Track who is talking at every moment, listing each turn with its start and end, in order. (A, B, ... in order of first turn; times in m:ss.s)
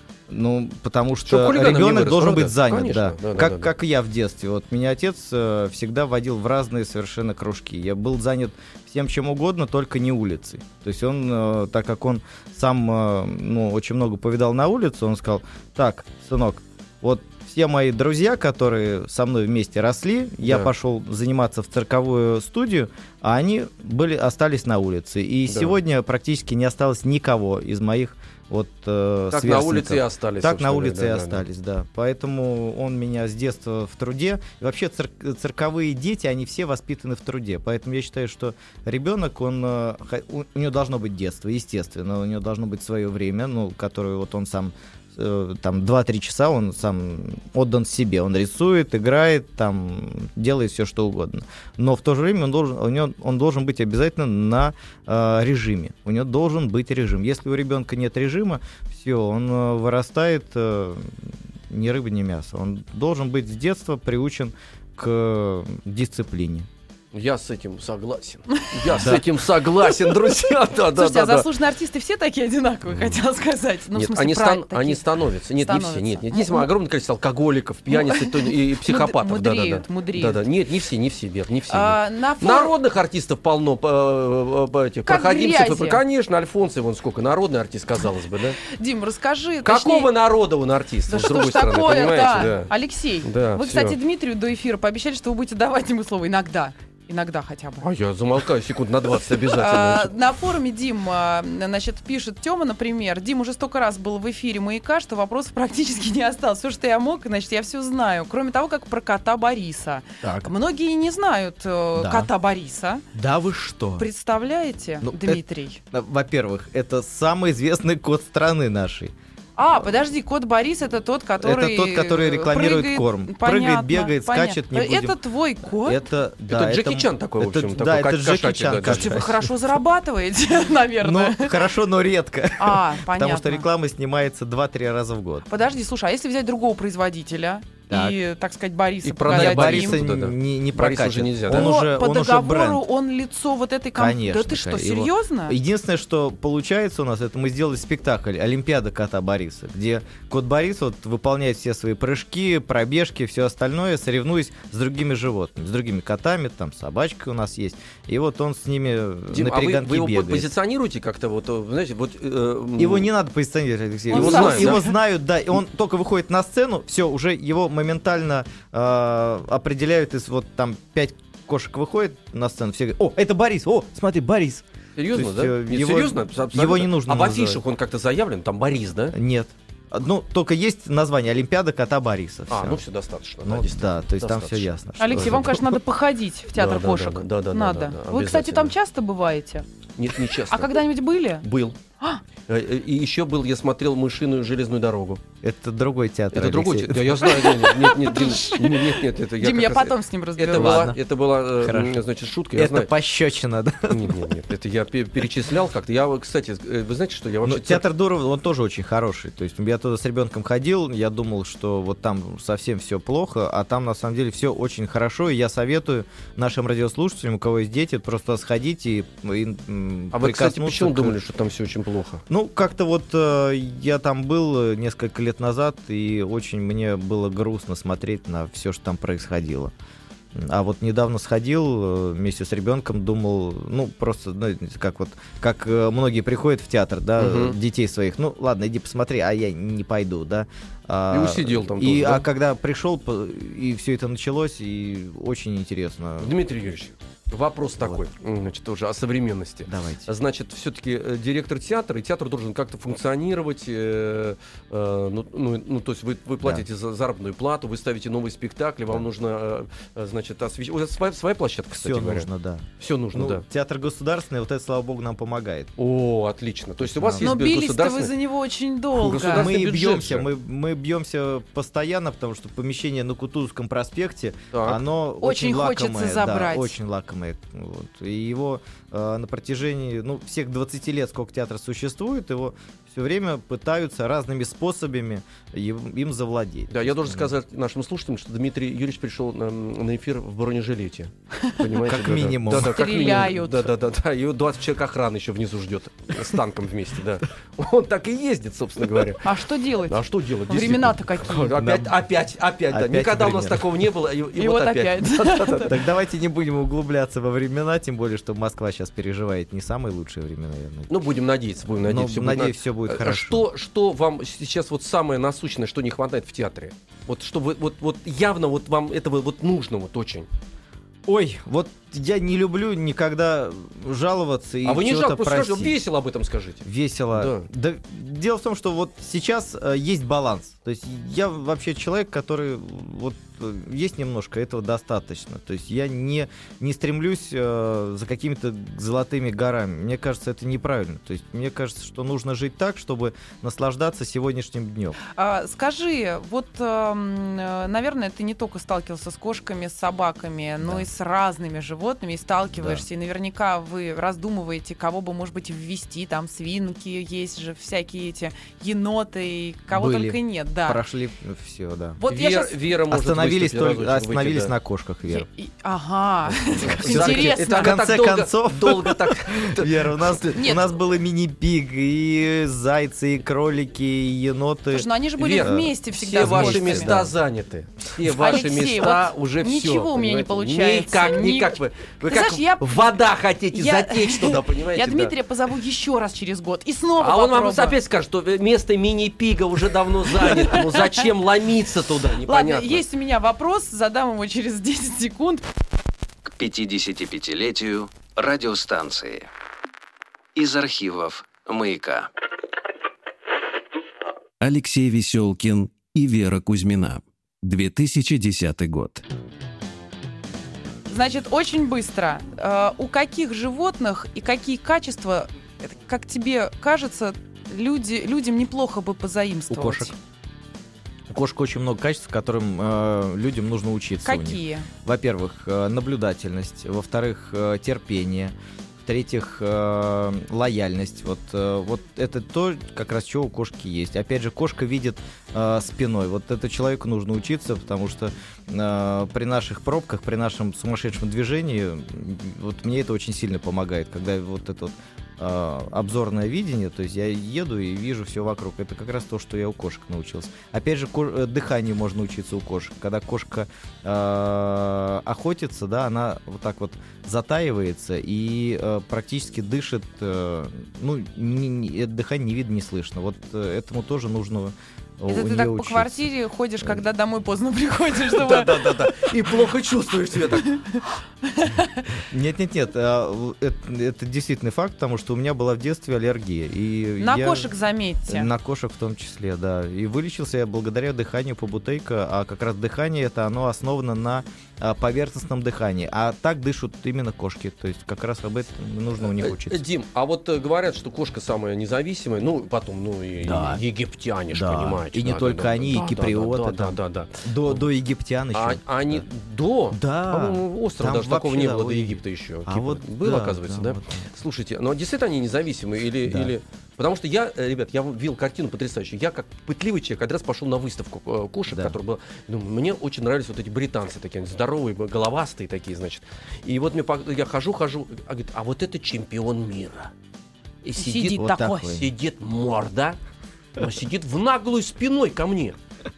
0:00.3-1:06.7 A
0:01.2-0:03.7 B
0:20.4-0:20.7 B
0:25.5-0:25.7 B
0:29.3-0:31.4 B
1:07.1-1:11.5 B
1:08.9-1:09.2 A
1:10.9-1:15.0 C
1:13.9-1:28.6 B
1:15.6-1:16.7 C
1:17.9-1:20.4 C
1:21.7-1:22.7 C
1:25.0-1:26.0 C
1:28.7-1:30.1 C
1:29.6-1:32.7 B
1:31.1-1:37.8 C
1:33.2-1:34.0 B
1:37.8-1:40.1 B
1:39.5-1:53.0 C
1:50.2-1:50.5 A
1:52.0-1:52.3 A
1:53.1-1:54.0 A
1:54.0-1:55.8 C
1:55.0-1:59.1 A
1:59.6-2:06.0 C
2:01.4-2:09.4 A
2:06.5-2:09.3 B
2:08.8-2:11.6 C
2:11.0-2:15.4 A
2:12.6-2:13.6 C
2:15.5-2:20.0 C
2:17.9-2:18.2 A
2:19.0-2:21.7 B
2:19.2-2:22.8 A
2:21.5-2:25.6 C
2:23.9-2:40.5 A
2:39.3-2:43.1 B
2:42.8-2:57.6 A
2:44.1-2:44.9 C
2:44.1-2:44.8 B
2:55.0-2:59.2 B
2:59.1-3:02.8 A
3:02.5-3:05.6 B
3:03.4-3:05.6 A
3:05.0-3:09.7 C
3:06.6-3:08.7 B
3:10.0-3:10.7 B
3:10.5-3:11.4 C
3:11.4-3:11.8 B
3:12.4-3:15.2 B
3:15.4-3:17.2 A
3:16.3-3:22.9 B
3:17.2-3:20.9 C
3:20.5-3:21.0 A
3:21.6-3:22.0 A
3:22.5-3:24.3 A
3:23.9-3:27.8 B
3:27.4-3:41.2 A
3:40.1-3:42.2 B
3:42.3-3:49.7 A
3:50.3-4:06.3 A
3:57.2-3:57.6 B
4:01.1-4:02.2 B
4:06.2-4:22.3 B
4:09.7-4:10.1 A
4:21.7-4:25.7 A
4:22.8-4:23.4 B
4:25.8-4:28.1 B
4:26.8-4:27.4 A
4:27.2-4:29.5 C
4:29.0-4:30.3 B
4:29.2-4:47.3 A
4:34.5-4:34.8 B
4:35.2-4:36.8 C
4:46.7-4:59.3 B
4:51.8-4:53.0 A
4:52.5-4:53.7 C
4:59.2-5:00.0 C
4:59.9-5:05.7 B
5:00.5-5:01.5 C
5:01.6-5:01.9 A
5:02.7-5:03.6 A
5:04.4-5:05.7 C
5:05.6-5:11.0 A
5:10.9-5:20.3 B
5:11.8-5:13.4 A
5:21.0-5:25.7 A
5:24.6-5:26.6 B
5:26.6-5:45.0 A
5:27.1-5:27.4 B
5:45.1-6:00.8 C
5:50.6-5:50.8 A
5:52.5-5:52.8 A
5:59.7-6:02.0 A
6:02.0-6:02.5 C
6:02.1-6:04.5 B
6:02.9-6:05.3 A
6:05.1-6:07.8 C
6:06.4-6:10.2 B
6:06.6-6:14.9 A
6:10.4-6:10.6 C
6:14.7-6:17.0 C
6:15.2-6:25.1 B
6:15.4-6:17.1 A
6:18.1-6:23.0 C
6:23.5-6:27.8 C
6:27.0-6:32.8 B
6:30.3-6:30.8 C
6:32.2-6:35.4 C
6:36.3-6:39.3 D
6:40.3-6:42.1 D
6:44.4-6:49.0 E
6:50.9-6:59.9 C
6:59.5-6:59.9 A
7:01.1-7:46.1 A
7:04.0-7:04.7 C
7:45.1-7:48.9 C
7:48.1-7:50.5 B
7:50.5-7:51.8 C
7:52.1-7:57.5 A
7:57.0-7:58.3 C
7:58.1-8:09.6 A
8:09.0-8:17.7 B
8:13.2-8:13.6 A
8:14.3-8:19.0 A
8:18.3-8:39.9 B
8:19.7-8:24.1 A
8:26.0-8:26.3 A
8:31.5-8:31.8 A
8:40.6-8:43.0 B
8:40.8-8:41.7 C
8:41.1-8:41.9 A
8:43.6-8:45.6 B